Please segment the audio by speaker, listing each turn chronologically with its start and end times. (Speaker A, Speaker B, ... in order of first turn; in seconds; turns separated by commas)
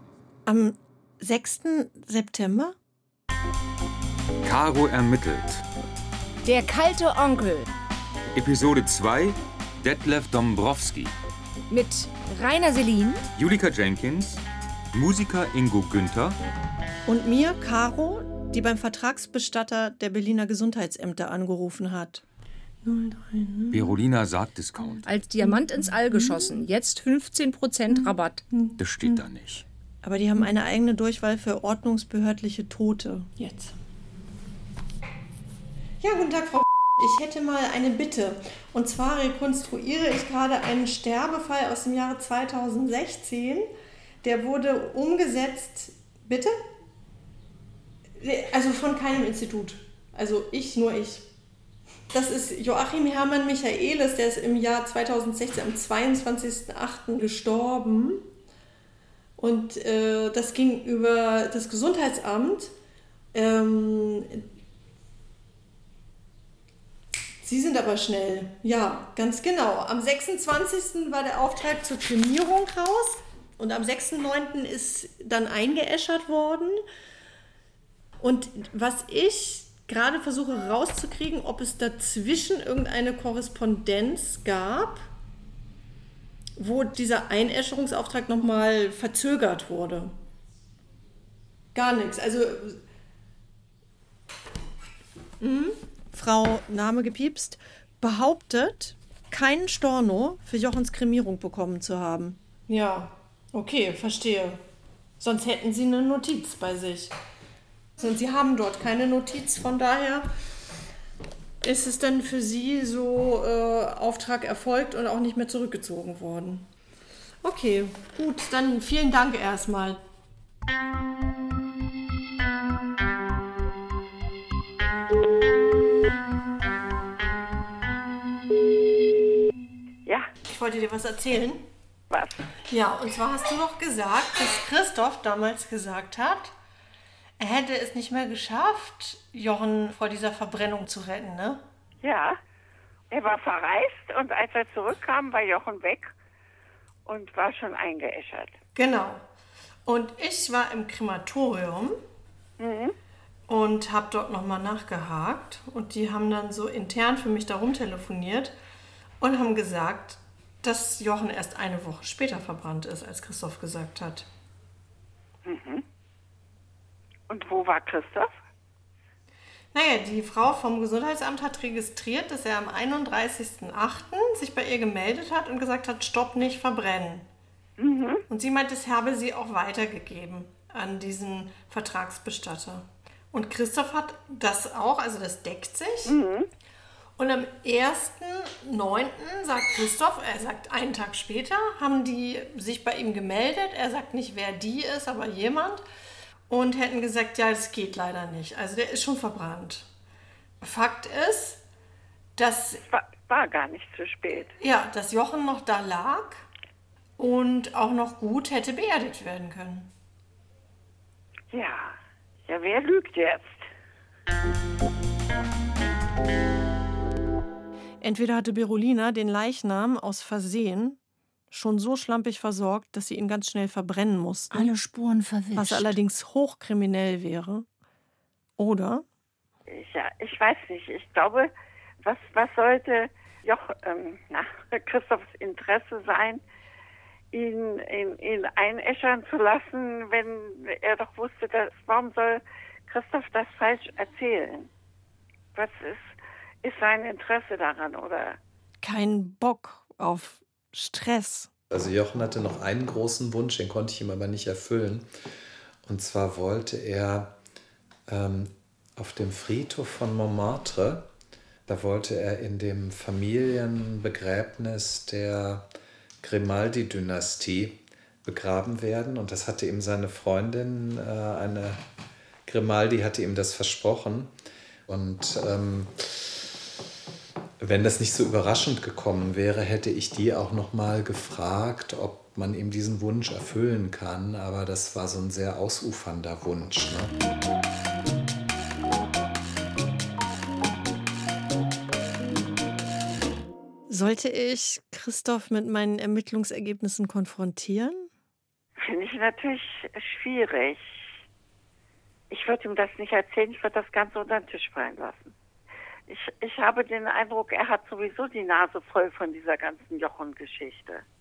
Speaker A: 0.5-2.8, Speaker B: 4.4-5.6, Speaker C: 6.5-7.7, Speaker B: 8.3-11.1, Speaker C: 11.7-13.2, Speaker B: 13.4-14.4, Speaker B: 14.9-16.4, Speaker A: 17.1-22.2, Speaker A: 22.8-24.0, Speaker B: 23.7-25.1, Speaker C: 25.0-28.4, Speaker A: 25.4-26.5, Speaker A: 27.9-29.2, Speaker B: 28.8-29.6, Speaker A: 30.0-33.7, Speaker A: 36.0-43.7, Speaker A: 44.2-46.5, Speaker A: 48.2-51.3, Speaker A: 52.1-58.2, Speaker A: 59.4-62.7, Speaker A: 63.3-64.5, Speaker A: 67.4-76.8, Speaker A: 78.2-85.0, Speaker A: 86.6-90.1, Speaker A: 91.7-92.8, Speaker A: 95.4-104.6, Speaker A: 105.2-107.1, Speaker A: 108.0-110.3, Speaker A: 111.6-116.7, Speaker A: 117.4-120.0, Speaker A: 130.5-131.7, Speaker A: 132.7-136.5, Speaker A: 137.4-141.6, Speaker D: 142.0-142.4, Speaker D: 143.1-146.1, Speaker D: 147.1-148.5, Speaker A: 148.8-149.2, Speaker A: 149.9-152.0, Speaker D: 152.6-152.9, Speaker A: 153.5-158.6, Speaker A: 159.2-164.3, Speaker D: 165.4-165.8, Speaker D: 167.3-168.3, Speaker A: 169.7-177.3, Speaker D: 177.8-178.2, Speaker A: 178.3-186.2, Speaker D: 186.1-186.5, Speaker A: 187.2-195.8, Speaker A: 196.5-199.9, Speaker A: 200.6-201.6, Speaker A: 202.4-202.8, Speaker D: 202.8-204.5, Speaker A: 204.6-206.4, Speaker A: 207.2-209.9, Speaker D: 211.5-212.0, Speaker D: 212.5-213.6, Speaker A: 218.0-221.0, Speaker A: 221.5-224.7, Speaker C: 224.5-226.0, Speaker A: 225.5-227.7, Speaker A: 228.6-229.1, Speaker D: 229.7-231.5, Speaker D: 232.0-236.4, Speaker D: 237.3-244.7, Speaker D: 245.6-246.1, Speaker D: 246.6-248.4, Speaker A: 248.8-251.5, Speaker E: 251.7-255.1, Speaker E: 255.9-257.4, Speaker E: 258.1-261.1, Speaker E: 261.7-265.7, Speaker E: 266.2-271.8, Speaker E: 272.5-274.3, Speaker E: 274.9-276.5, Speaker E: 277.6-287.1, Speaker A: 293.9-298.1, Speaker D: 298.8-300.8, Speaker D: 302.3-305.3, Speaker D: 306.1-311.0